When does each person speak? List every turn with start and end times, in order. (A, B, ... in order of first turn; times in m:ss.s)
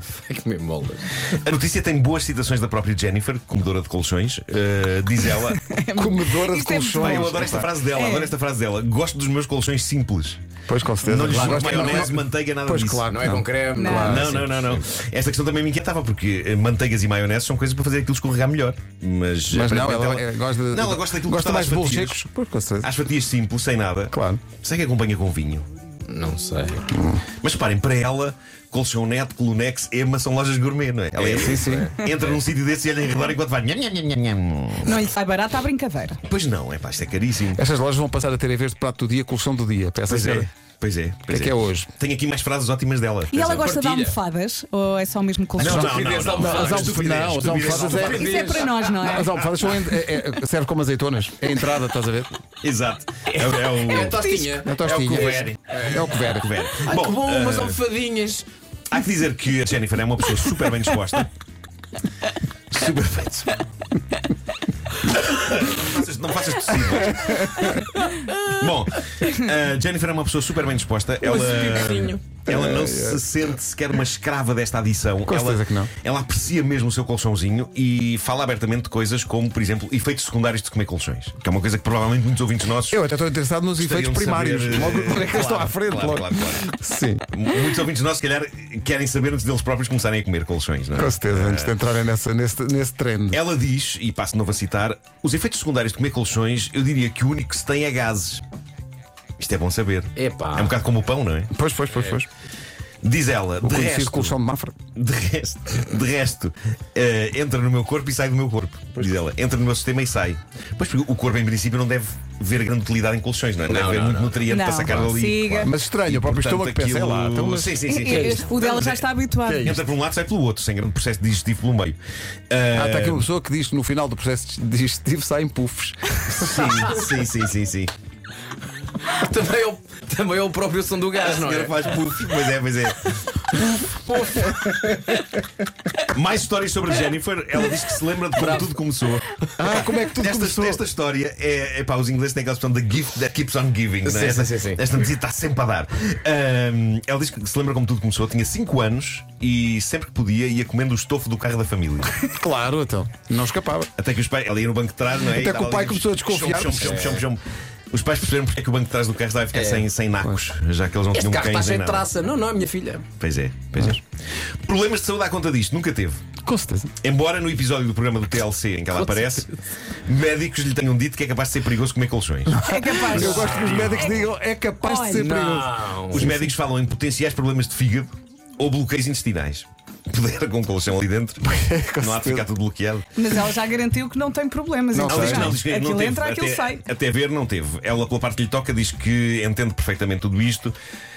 0:00.3-0:01.2 A
0:01.4-0:05.6 B
0:05.5-0:07.3 C
0:06.0-0:07.7 D
0:07.0-0:10.4 B
0:07.9-0:08.3 C
0:10.7-0:14.3 D
0:11.0-0:13.1 B
0:11.3-0:12.1 A
0:13.1-0:14.8 A
0:13.8-0:14.0 C
0:13.9-0:22.2 B
0:19.5-0:22.9 D
0:22.8-0:25.7 B
0:24.1-0:24.4 D
0:26.1-0:26.8 A
0:26.9-0:27.2 D
0:27.4-0:35.0 B
0:31.2-0:32.4 A
0:31.3-0:31.9 D
0:34.8-0:36.2 C
0:36.2-0:37.6 B
0:37.6-0:40.5 D
0:40.1-0:43.6 B
0:41.3-0:41.9 D
0:43.3-0:45.8 C
0:43.4-0:44.2 A
0:45.6-0:48.5 B
0:45.6-0:49.2 A
0:45.6-0:48.4 D
0:48.1-0:49.4 C
0:48.9-0:52.4 D
0:52.6-0:57.8 B
0:53.3-0:56.1 A
0:54.1-0:54.4 C
0:54.6-0:56.5 D
0:56.8-0:58.4 A
0:58.9-1:01.3 B
1:02.7-1:03.6 B
1:05.0-1:07.7 B
1:07.1-1:07.7 D
1:07.7-1:08.4 A
1:08.5-1:23.0 B
1:11.2-1:12.2 A
1:12.5-1:13.2 D
1:15.2-1:15.9 D
1:22.9-1:27.2 D
1:23.8-1:26.7 B
1:27.3-1:31.7 B
1:30.9-1:33.4 D
1:33.3-1:38.4 B
1:39.4-1:41.5 B
1:40.2-1:40.7 A
1:41.5-1:42.3 D
1:43.0-1:44.4 B
1:43.6-1:44.7 D
1:45.0-2:02.0 B
1:53.7-1:55.1 A
1:54.5-1:55.7 C
1:55.6-1:57.8 D
1:57.9-1:59.6 C
1:58.1-1:58.4 A
1:59.4-1:59.8 D
2:02.5-2:03.3 B
2:02.7-2:06.8 D
2:06.3-2:07.9 B
2:09.1-2:11.8 A
2:11.2-2:13.2 B
2:14.1-2:15.2 A
2:14.3-2:14.6 D
2:16.1-2:32.1 B
2:18.3-2:18.7 A
2:19.6-2:20.8 D
2:24.0-2:24.8 A
2:32.3-2:33.9 D
2:34.0-2:42.1 B
2:35.3-2:37.2 D
2:36.8-2:37.2 A
2:39.5-2:39.9 A
2:41.1-2:43.0 A
2:43.2-2:44.0 B
2:44.6-2:46.2 B
2:46.4-2:46.9 D
2:47.0-2:49.5 B
2:48.9-2:49.5 A
2:50.0-2:54.2 B
2:52.5-2:56.5 D
2:52.6-2:54.3 C
2:53.4-2:53.9 A
2:54.8-2:55.3 C
2:55.2-2:56.3 A
2:56.1-3:01.4 B
3:01.4-3:02.5 D
3:02.0-3:03.1 B
3:03.2-3:06.8 C
3:04.9-3:05.6 D
3:05.1-3:10.8 B